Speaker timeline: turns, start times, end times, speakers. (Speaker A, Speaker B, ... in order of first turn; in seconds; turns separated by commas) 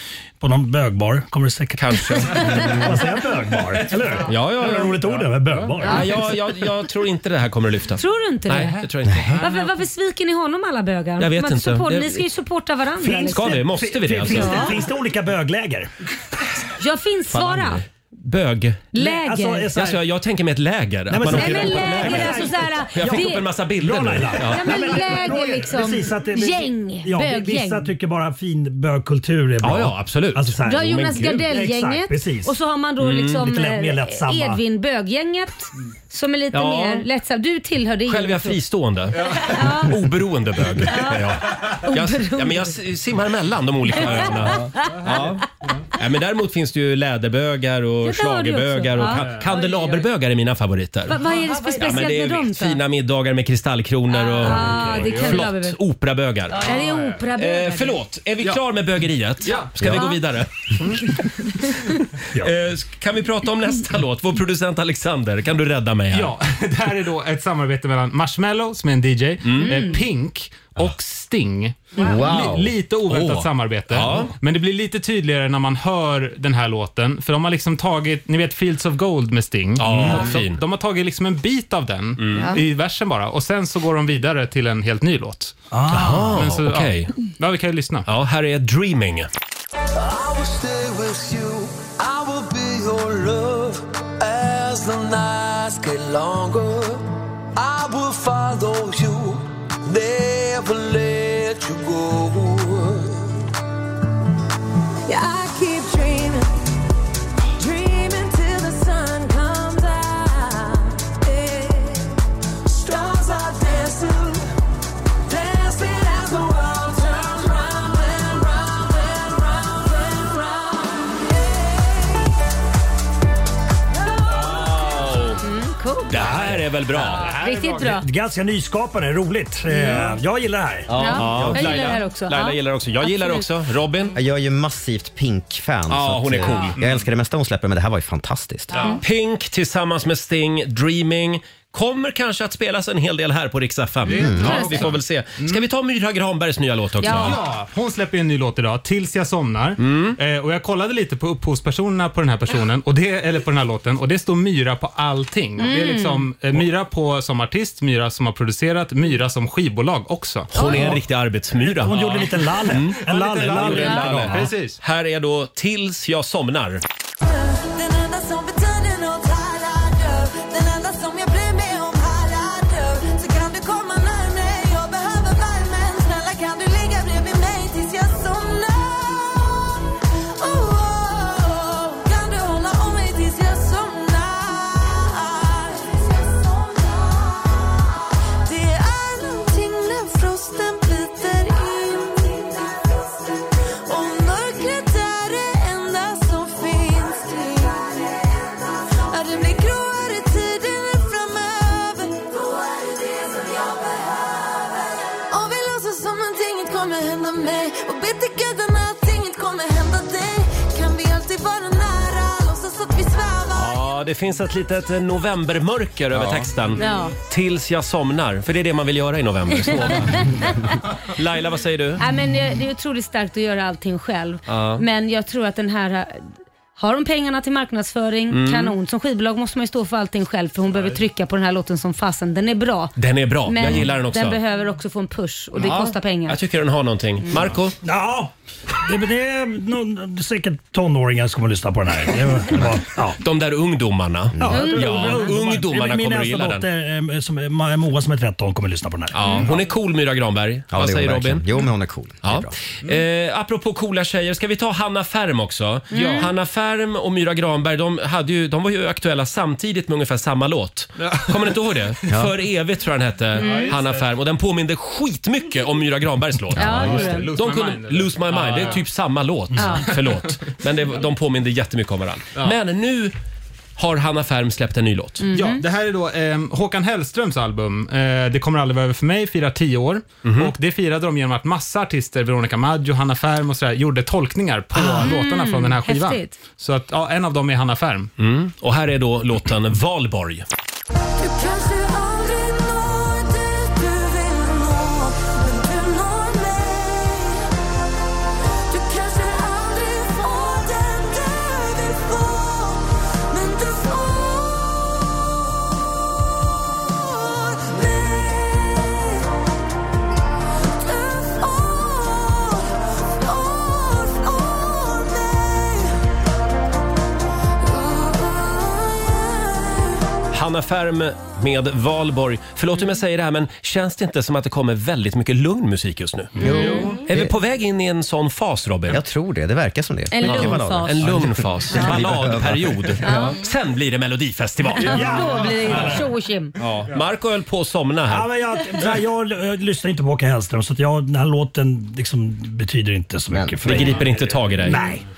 Speaker A: 0.4-6.3, Speaker B: 1.8-3.1, Speaker B: 4.2-5.2, Speaker B: 5.8-9.4, Speaker C: 5.8-6.1, Speaker C: 8.0-8.8, Speaker D: 9.1-9.3, Speaker C: 9.4-13.6, Speaker B: 11.2-12.2, Speaker A: 13.0-15.9, Speaker B: 13.3-14.8, Speaker C: 14.2-14.8, Speaker C: 16.8-17.8, Speaker B: 17.4-18.9, Speaker C: 18.9-19.7, Speaker A: 18.9-20.0, Speaker B: 19.7-24.9, Speaker A: 21.1-32.5, Speaker C: 21.3-23.4, Speaker C: 24.4-27.9, Speaker B: 29.6-31.4, Speaker C: 30.6-38.6, Speaker B: 33.0-33.4, Speaker A: 33.4-34.6, Speaker B: 36.5-37.0, Speaker B: 38.1-45.4, Speaker C: 39.4-40.0, Speaker C: 40.8-42.8, Speaker C: 44.0-44.6, Speaker E: 45.0-45.3, Speaker B: 46.0-51.2, Speaker C: 48.0-49.2, Speaker E: 49.0-49.6, Speaker C: 51.1-52.8, Speaker B: 51.8-56.7, Speaker E: 54.4-55.5, Speaker C: 54.4-55.8, Speaker C: 56.6-58.0, Speaker E: 56.7-57.2, Speaker B: 57.3-61.2, Speaker E: 59.4-60.0, Speaker C: 59.9-60.2, Speaker E: 60.8-61.1, Speaker B: 62.3-66.3, Speaker E: 66.1-88.1, Speaker B: 69.4-69.8, Speaker C: 69.6-70.0, Speaker D: 72.0-72.7, Speaker B: 73.1-74.3, Speaker B: 79.8-80.6, Speaker B: 82.2-82.5, Speaker A: 85.7-86.4, Speaker B: 85.9-87.1, Speaker B: 88.1-89.3, Speaker F: 90.0-97.0, Speaker F: 97.5-103.3, Speaker G: 105.1-106.5, Speaker G: 107.6-112.1, Speaker G: 112.7-114.5, Speaker G: 115.3-122.4, Speaker G: 124.0-124.6, Speaker B: 124.3-125.4, Speaker C: 125.4-126.2, Speaker B: 126.1-127.3, Speaker A: 126.1-126.7, Speaker E: 126.9-128.0, Speaker C: 127.2-128.0, Speaker A: 127.9-130.9, Speaker C: 129.7-130.1, Speaker D: 130.9-131.8, Speaker C: 130.9-133.4, Speaker B: 131.1-134.1, Speaker D: 134.1-138.8, Speaker B: 135.9-136.8, Speaker B: 139.0-147.4, Speaker E: 144.0-145.6, Speaker D: 144.2-144.6, Speaker C: 144.4-144.9, Speaker C: 147.0-147.4, Speaker E: 147.0-160.8, Speaker B: 149.8-150.2, Speaker C: 155.6-156.3, Speaker B: 160.5-166.8, Speaker A: 160.7-161.0, Speaker A: 161.6-164.5, Speaker E: 162.9-164.8, Speaker G: 167.2-179.8, Speaker G: 180.4-187.9, Speaker G: 188.4-193.1, Speaker G: 193.8-213.8, Speaker B: 213.6-222.0, Speaker D: 216.1-216.5, Speaker C: 216.8-217.1, Speaker C: 219.7-220.7, Speaker C: 222.0-232.9, Speaker B: 224.5-224.8, Speaker B: 228.3-228.7, Speaker B: 233.0-234.4, Speaker C: 233.5-236.4, Speaker B: 235.6-237.7, Speaker A: 237.8-243.2, Speaker B: 243.2-246.6, Speaker A: 244.4-249.5, Speaker C: 244.4-245.3, Speaker B: 249.1-251.4, Speaker C: 249.2-249.5, Speaker D: 250.7-252.5, Speaker B: 252.2-273.1, Speaker C: 255.9-256.3, Speaker E: 263.3-264.0, Speaker C: 263.4-263.8, Speaker C: 266.5-267.3, Speaker E: 266.5-268.9, Speaker C: 269.6-269.9, Speaker E: 269.6-270.1, Speaker B: 273.8-275.2, Speaker C: 275.2-275.6, Speaker E: 275.3-288.1, Speaker B: 280.2-280.5, Speaker C: 284.7-286.4, Speaker B: 288.2-290.4, Speaker G: 291.1-297.5, Speaker G: 298.7-309.4, Speaker G: 310.6-315.9, Speaker G: 317.6-319.9, Speaker B: 320.3-329.0, Speaker C: 326.4-326.9, Speaker D: 326.4-327.3, Speaker D: 328.9-333.2, Speaker C: 330.1-331.1, Speaker B: 330.2-335.3, Speaker C: 331.7-332.0, Speaker C: 333.0-333.4, Speaker C: 334.8-336.6, Speaker A: 334.8-336.0, Speaker B: 336.6-338.3, Speaker A: 338.1-345.0, Speaker D: 343.3-343.8, Speaker B: 343.6-344.8